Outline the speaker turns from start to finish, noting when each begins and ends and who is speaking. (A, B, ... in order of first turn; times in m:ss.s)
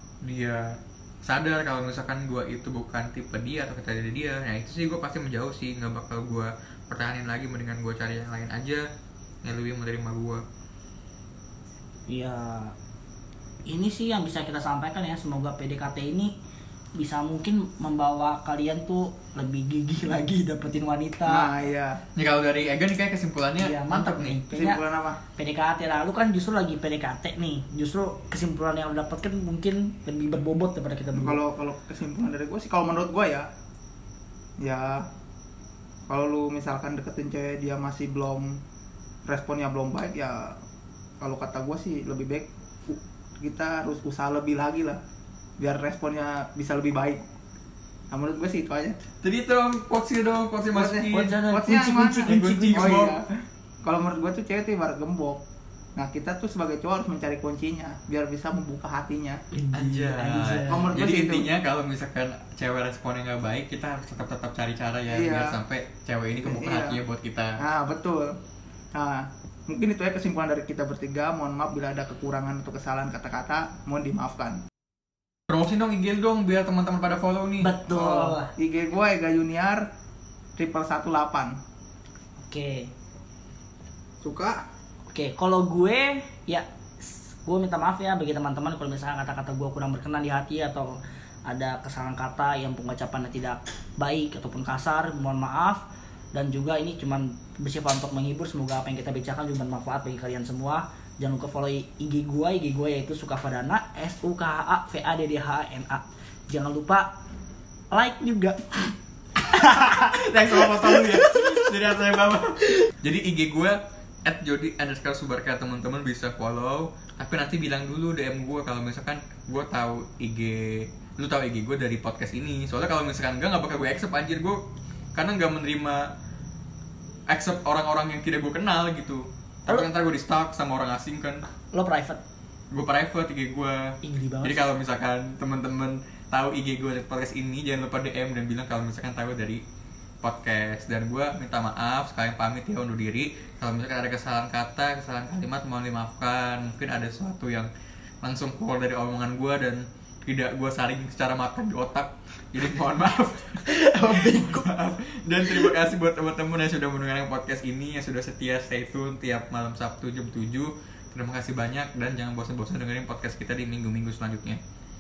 0:00.2-0:08.8 A
0:09.4-0:10.4 A
0:12.1-0:12.7 B
0:13.7-0:16.3 B
0:17.0-0:21.5 B
0:21.2-0:22.0 C
0:22.2-0:24.4 A
0:23.6-0:24.8 B
0:24.5-0:25.2 C
0:25.4-0:31.4 B
0:31.1-0:33.5 C
0:34.6-0:35.0 C
0:36.1-0:38.6 C
0:39.2-0:40.6 C
0:41.2-0:45.0 C
0:45.6-0:47.2 C
0:48.1-0:49.0 C
0:49.2-0:51.4 A
0:50.7-0:55.4 C
0:51.1-0:53.0 B
0:52.2-0:53.2 A
0:56.0-0:59.4 C
0:59.5-1:01.0 B
0:59.7-1:07.6 A
1:00.7-1:01.5 C
1:05.1-1:05.6 C
1:06.4-1:07.0 C
1:07.6-1:08.4 C
1:08.9-1:14.6 C
1:15.5-1:17.7 A
1:17.6-1:18.5 B
1:17.9-1:19.8 C
1:20.6-1:21.6 C
1:22.4-1:22.9 B
1:24.2-1:24.6 C
1:25.1-1:35.8 B
1:36.3-1:47.1 B
1:47.9-1:51.7 B
1:49.6-2:04.6 A
2:05.2-2:06.1 A
2:07.3-2:11.4 A
2:11.7-2:12.2 B
2:12.7-2:19.6 A
2:14.0-2:14.6 B
2:20.2-2:27.7 A
2:28.2-2:44.6 A
2:33.6-2:34.7 B
2:35.4-2:35.7 B